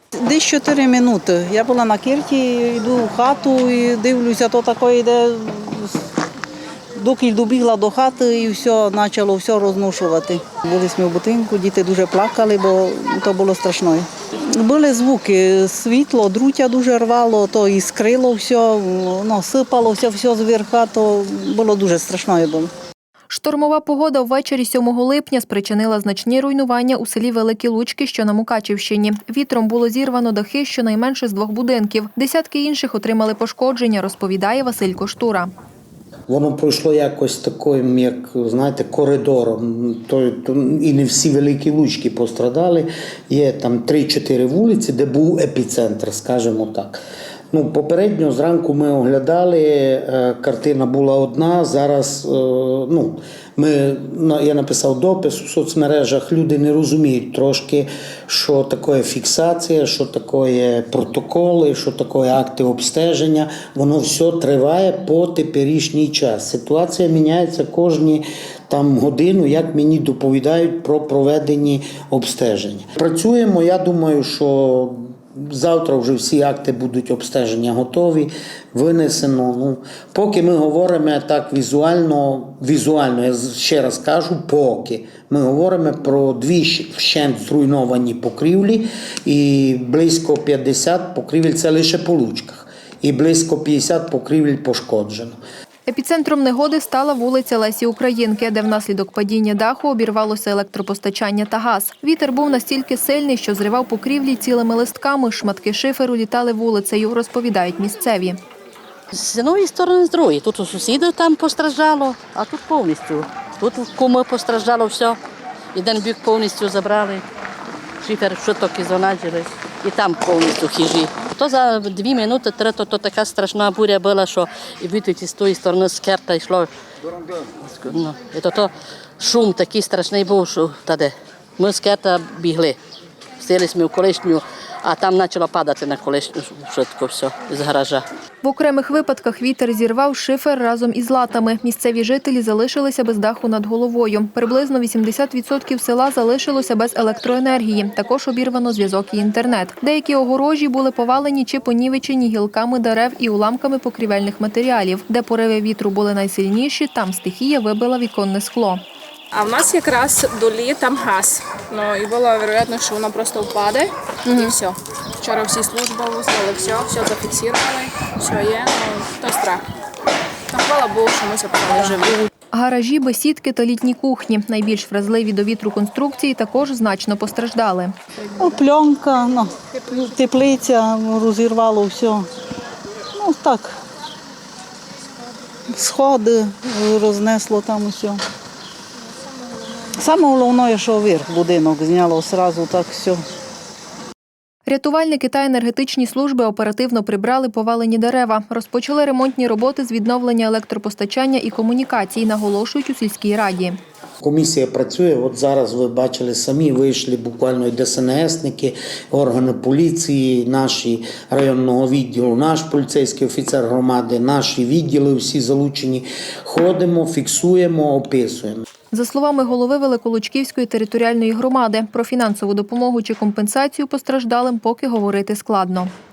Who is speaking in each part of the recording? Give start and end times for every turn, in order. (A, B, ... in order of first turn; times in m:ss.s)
0:00.2-0:06.0 A
0:07.0-0:22.7 A
0:23.3-0:35.5 B
0:36.3-0:47.0 C
0:47.5-1:35.4 C
1:35.9-1:48.4 B
1:49.1-1:55.2 D
1:55.7-1:57.2 D
1:58.0-2:06.7 D
2:07.6-2:12.8 D
2:13.4-2:18.0 D
2:18.4-2:38.8 B
2:39.3-2:49.7 E
2:44.3-2:44.5 B
2:50.5-2:52.3 E
2:52.5-2:57.9 B
2:58.4-3:02.3 A
3:03.2-3:03.8 A
3:05.7-3:08.2 A
3:09.8-3:13.2 A
3:14.7-3:23.8 B
3:24.2-3:38.6 C
3:38.9-3:45.9 B